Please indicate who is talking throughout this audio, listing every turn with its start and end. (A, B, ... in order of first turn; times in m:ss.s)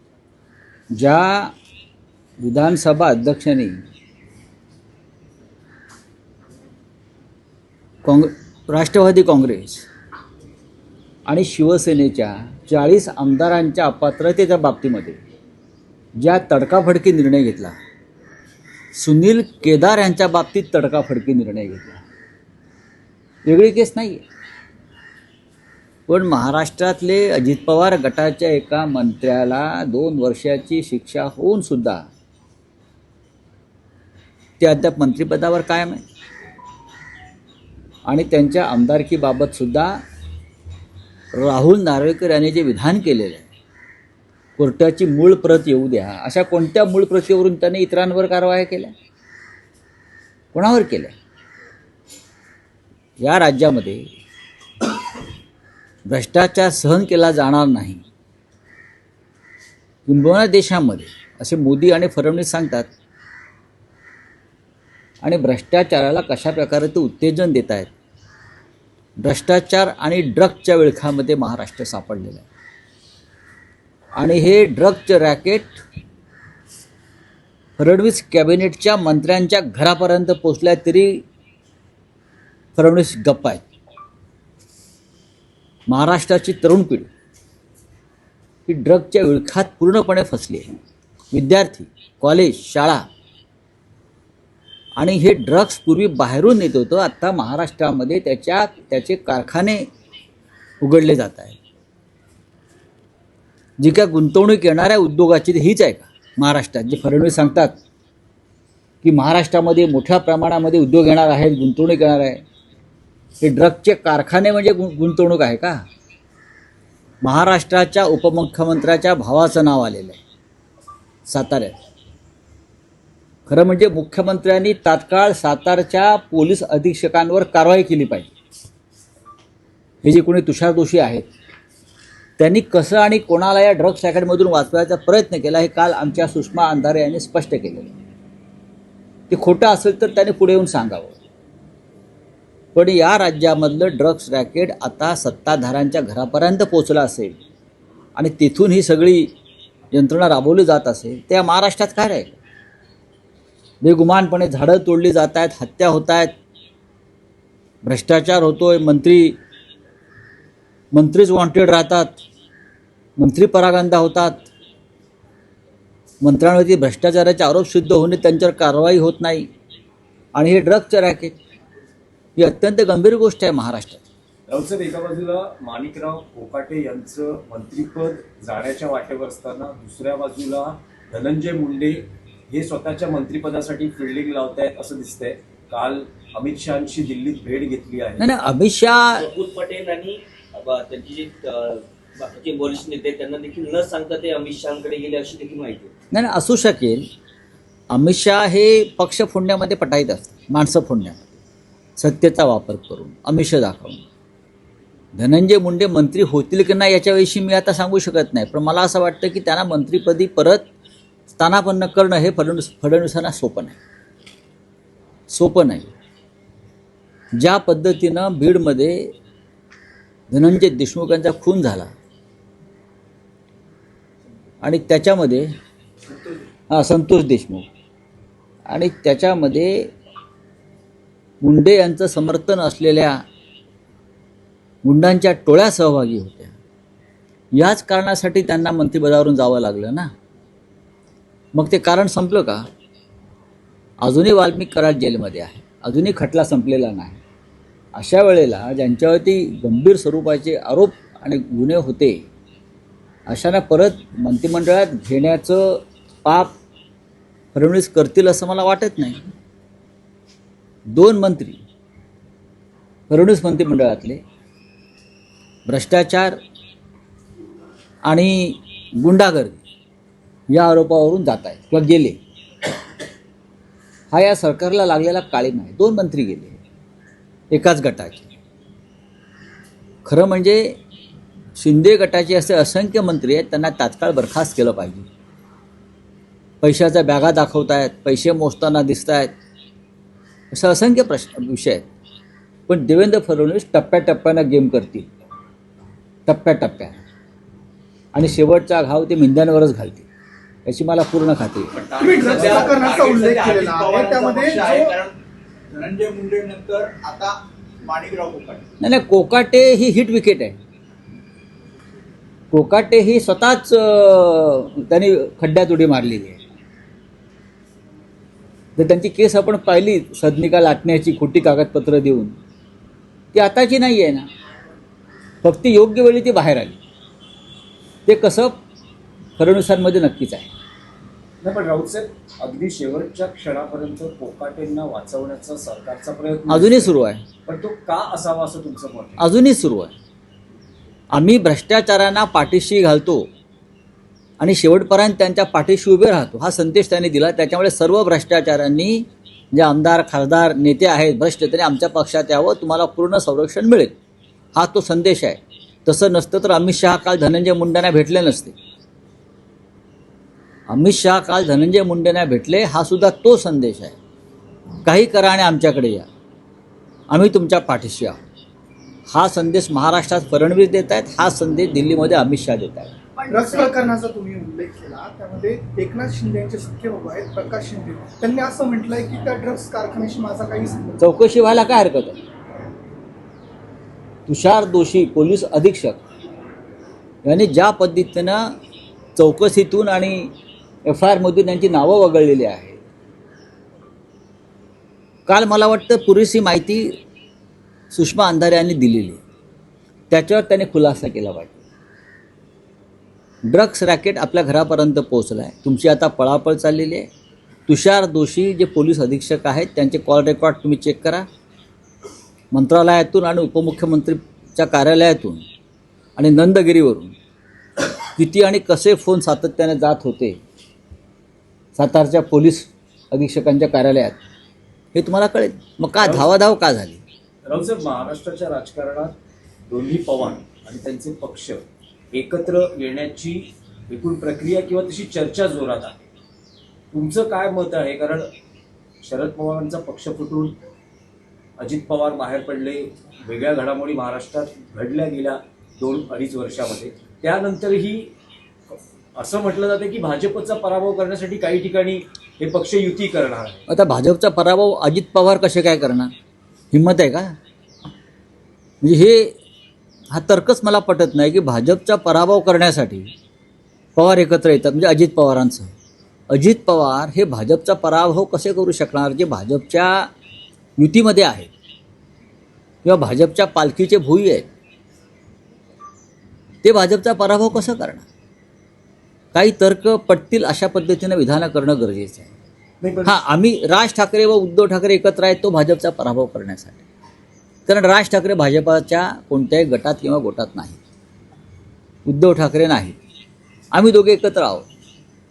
0:01.0-0:01.5 A
0:02.4-0:03.8 A
0:08.0-0:09.9 A
0:11.3-0:15.2 A
0:16.2-0:17.8 A
0:19.0-0:22.0 A
0:23.5-0:24.2 A
0:26.1-0:32.0 A
0:34.6-0:36.0 A
0:38.1-0:40.0 A
0:41.3-0:43.5 A
0:44.6-0:48.9 A
0:50.5-0:51.1 A
0:53.2-0:54.0 A
0:56.1-0:58.0 A
1:00.1-1:02.9 A
1:05.2-1:07.9 A
1:09.2-1:12.4 A
1:14.2-1:15.8 A
1:17.8-1:21.2 A
1:22.8-1:23.6 A
1:25.9-1:27.1 A
1:28.7-1:30.7 A
1:31.3-1:33.0 A
1:35.0-1:39.8 A
1:40.8-1:41.6 A
1:43.8-1:47.7 A
1:49.0-1:52.4 A
1:53.4-1:55.8 A
1:57.2-2:00.2 A
2:01.3-2:01.7 A
2:03.5-2:08.3 A
2:10.0-2:11.2 A
2:12.4-2:17.9 A
2:19.3-2:21.1 A
2:22.8-2:27.4 A
2:28.2-2:29.3 A
2:29.9-2:32.4 A
2:33.8-2:36.3 A
2:37.8-2:39.4 A
2:40.9-2:42.2 A
2:43.2-2:44.5 A
2:46.2-2:49.5 A
2:50.4-2:51.4 A
2:52.4-2:54.1 A
2:54.5-3:08.3 B
3:08.2-3:09.3 A
3:09.1-3:15.9 C
3:16.1-3:17.0 A
3:17.9-3:21.3 A
3:22.0-3:24.0 A
3:25.2-3:30.6 A
3:31.4-3:33.8 A
3:35.3-3:35.9 A
3:37.4-3:39.1 A
3:40.3-3:41.9 A
3:44.6-3:45.5 A
3:46.7-3:47.6 A
3:48.7-3:49.9 A
3:51.4-3:53.2 A
3:54.8-3:56.5 A
3:57.6-4:00.1 A
4:01.6-4:02.7 A
4:04.0-4:07.2 A
4:08.0-4:12.2 A
4:13.3-4:16.5 A
4:17.5-4:19.2 A
4:20.9-4:21.6 A
4:23.1-4:24.2 A
4:25.7-4:26.4 A
4:28.1-4:29.6 A
4:30.5-4:32.2 A
4:34.1-4:36.6 A
4:37.5-4:38.3 A
4:40.0-4:40.8 A
4:41.6-4:45.1 A
4:46.6-4:49.3 A
4:50.5-4:51.8 A
4:52.7-4:55.1 A
4:56.3-4:57.0 A
4:58.2-5:00.1 A
5:00.7-5:01.8 A
5:02.0-5:05.0 D
5:02.0-5:05.1 E
5:02.3-5:02.6 B
5:05.7-5:08.6 E
5:08.8-5:10.6 A
5:12.5-5:16.4 A
5:18.8-5:22.3 A
5:23.3-5:24.3 A
5:25.4-5:26.8 A
5:28.1-5:28.6 A
5:29.4-5:30.5 A
5:31.4-5:36.9 B
5:36.5-5:37.2 A
5:37.5-5:39.2 B
5:39.2-5:39.9 A
5:41.1-5:43.3 A
5:44.4-5:54.0 A
5:54.6-5:58.5 A
6:00.7-6:04.0 A
6:04.8-6:06.1 A
6:07.1-6:08.2 A
6:09.1-6:12.9 A
6:13.3-6:21.2 D
6:21.0-6:22.2 A
6:24.3-6:26.0 A
6:27.2-6:28.5 A
6:29.2-6:30.3 A
6:30.9-6:32.8 A
6:35.3-6:36.9 A
6:37.9-6:39.2 A
6:40.1-6:41.6 A
6:43.5-6:47.1 A
6:47.7-6:51.3 A
6:52.5-6:55.4 A
6:56.2-6:57.1 A
6:58.1-7:00.4 A
7:01.8-7:04.2 A
7:04.9-7:07.0 A
7:06.0-7:06.3 B
7:07.4-7:09.1 B
7:09.7-7:16.0 B
7:16.9-7:18.3 B
7:19.0-7:20.6 B
7:21.6-7:28.1 B
7:28.7-7:33.6 B
7:33.7-7:36.1 A
7:36.7-7:37.4 A
7:38.8-7:39.4 A
7:40.1-7:43.1 A
7:44.0-7:45.7 A
7:46.3-7:50.1 A
7:50.8-7:51.5 A
7:52.8-7:54.5 A
7:56.6-7:58.1 A
7:59.3-8:02.3 A
8:02.8-8:03.2 B
8:03.1-8:06.8 A
8:07.7-8:10.8 A
8:12.1-8:13.0 A
8:13.7-8:14.7 A